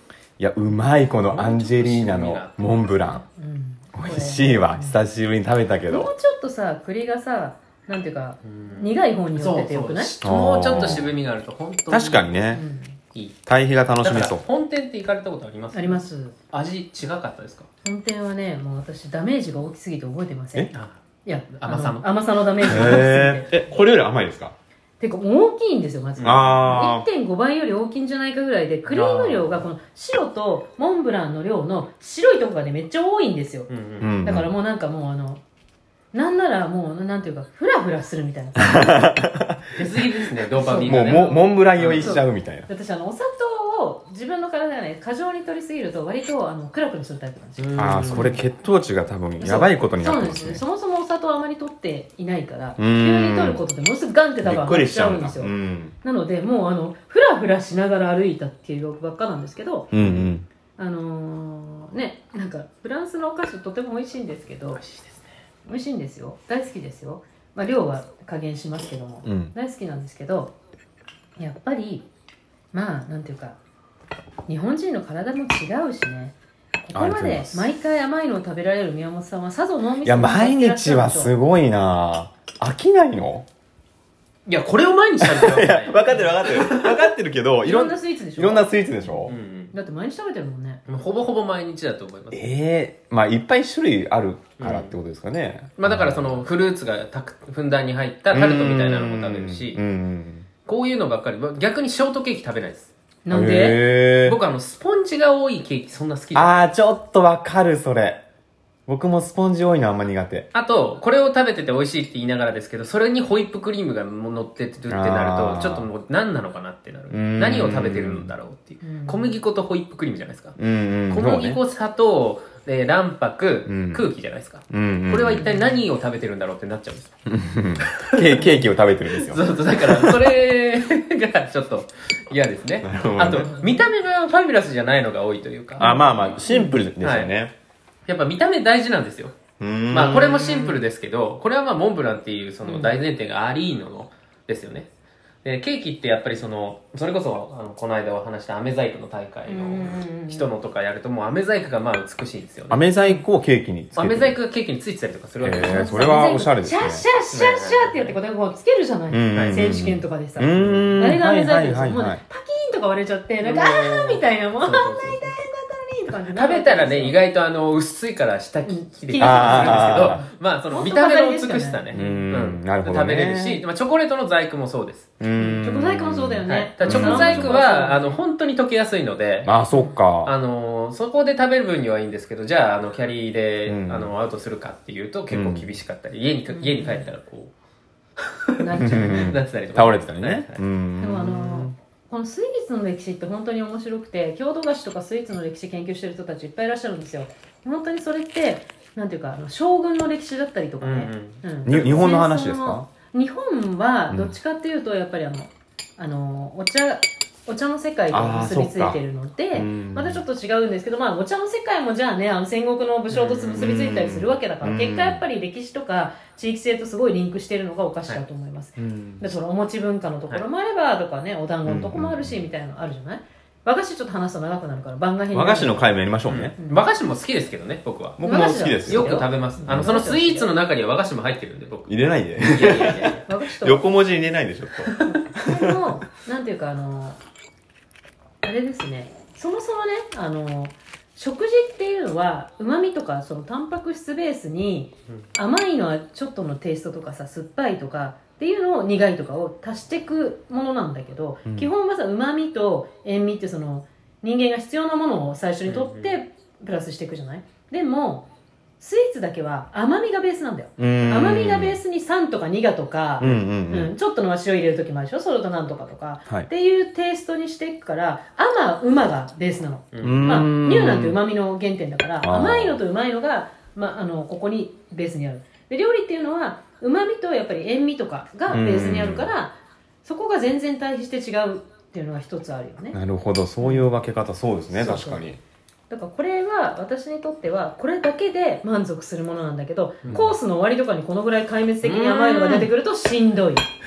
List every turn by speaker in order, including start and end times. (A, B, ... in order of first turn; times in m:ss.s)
0:00.4-0:03.2 A
0:01.3-0:02.7 B
0:03.1-0:05.0 C
0:03.9-0:06.1 A
0:05.9-0:10.1 C
0:08.4-0:12.3 B
0:10.2-0:11.1 A
0:11.9-0:12.6 A
0:12.5-0:13.0 C
0:13.4-0:14.4 A
0:14.0-0:17.7 B
0:15.7-0:16.3 C
0:17.8-0:20.7 C
0:20.7-0:21.0 B
0:21.2-0:23.5 C
0:21.5-0:22.0 B
0:22.6-0:23.0 B
0:22.6-0:24.5 A
0:25.0-0:33.7 C
0:26.2-0:26.7 B
0:26.2-0:27.1 A
0:28.9-0:29.4 A
0:33.7-0:34.1 B
0:34.0-0:34.5 A
0:34.2-0:35.4 C
0:36.1-0:39.1 C
0:38.9-0:39.6 A
0:39.7-0:42.2 B
0:40.6-0:41.4 C
0:40.9-0:42.7 A
0:42.0-0:48.4 C
0:47.6-0:48.4 B
0:47.8-0:50.6 A
0:49.4-0:59.9 C
0:52.8-0:53.6 A
0:54.4-0:55.9 A
0:59.9-1:00.4 A
0:59.9-1:00.3 B
1:00.8-1:04.8 C
1:04.7-1:05.3 B
1:05.6-1:10.5 C
1:09.2-1:09.5 A
1:11.4-1:12.0 C
1:12.7-1:13.6 C
1:14.5-1:21.3 C
1:16.9-1:17.7 A
1:20.0-1:23.5 A
1:24.5-1:27.1 B
1:25.2-1:29.3 A
1:27.6-1:30.8 C
1:29.3-1:29.7 B
1:30.9-1:32.5 B
1:32.3-1:36.4 A
1:34.6-1:35.0 B
1:35.8-1:39.8 B
1:38.3-1:40.5 A
1:40.6-1:42.9 B
1:43.2-1:43.8 C
1:43.3-1:44.4 A
1:44.2-1:46.7 B
1:46.3-1:48.2 A
1:48.9-1:50.5 A
1:50.5-2:00.6 B
1:54.9-1:55.9 A
1:57.1-1:58.3 A
1:58.8-1:59.4 C
2:00.6-2:01.6 A
2:01.1-2:07.1 B
2:03.6-2:04.1 A
2:04.7-2:05.5 A
2:05.5-2:05.8 C
2:07.2-2:10.1 A
2:07.8-2:08.5 B
2:09.2-2:15.9 B
2:12.8-2:13.5 A
2:13.3-2:13.9 C
2:15.8-2:16.8 C
2:15.8-2:17.5 A
2:17.0-2:17.3 B
2:18.1-2:19.4 B
2:19.6-2:20.8 A
2:19.9-2:24.9 B
2:22.6-2:23.0 C
2:25.4-2:32.9 B
2:29.5-2:30.5 C
2:32.7-2:34.4 A
2:33.9-2:36.3 B
2:35.4-2:37.0 A
2:35.6-2:47.2 C
2:37.3-2:38.2 B
2:39.1-2:42.2 A
2:39.3-2:39.6 B
2:40.4-2:41.0 B
2:43.4-2:45.4 B
2:46.3-2:55.1 B
2:48.6-2:52.3 C
2:49.2-2:50.2 A
2:51.9-2:53.6 A
2:55.2-2:57.6 A
2:55.4-2:58.2 C
2:56.4-2:59.5 B
2:59.4-3:00.3 A
2:59.7-3:00.0 C
3:00.2-3:07.5 B
3:03.7-3:04.1 A
3:05.3-3:05.7 A
3:06.5-3:07.1 C
3:08.2-3:10.6 B
3:08.6-3:09.4 C
3:08.8-3:11.7 A
3:11.0-3:46.0 C
3:20.8-3:22.1 B
3:21.6-3:22.9 A
3:28.1-3:29.0 A
3:29.5-3:30.2 A
3:33.1-3:33.6 B
3:33.5-3:35.2 A
3:38.8-3:39.2 A
3:41.6-3:42.3 A
3:45.3-3:46.5 A
3:46.2-3:51.9 B
3:46.6-3:46.9 C
3:48.2-3:49.9 A
3:48.2-3:50.5 C
3:51.9-3:54.9 A
3:52.4-3:53.2 B
3:53.1-3:54.0 C
3:54.8-3:55.1 B
3:55.0-3:57.2 C
3:58.4-4:18.2 C
4:11.4-4:11.7 A
4:15.6-4:16.1 B
4:18.8-4:43.0 C
4:20.8-4:21.8 A
4:23.2-4:23.9 A
4:29.9-4:30.3 B
4:30.0-4:31.2 A
4:32.2-4:32.8 A
4:38.5-4:39.3 A
4:42.9-4:45.4 A
4:43.6-4:43.9 C
4:44.7-4:45.2 C
4:45.9-4:53.6 C
4:50.0-4:50.3 B
4:51.8-4:52.7 B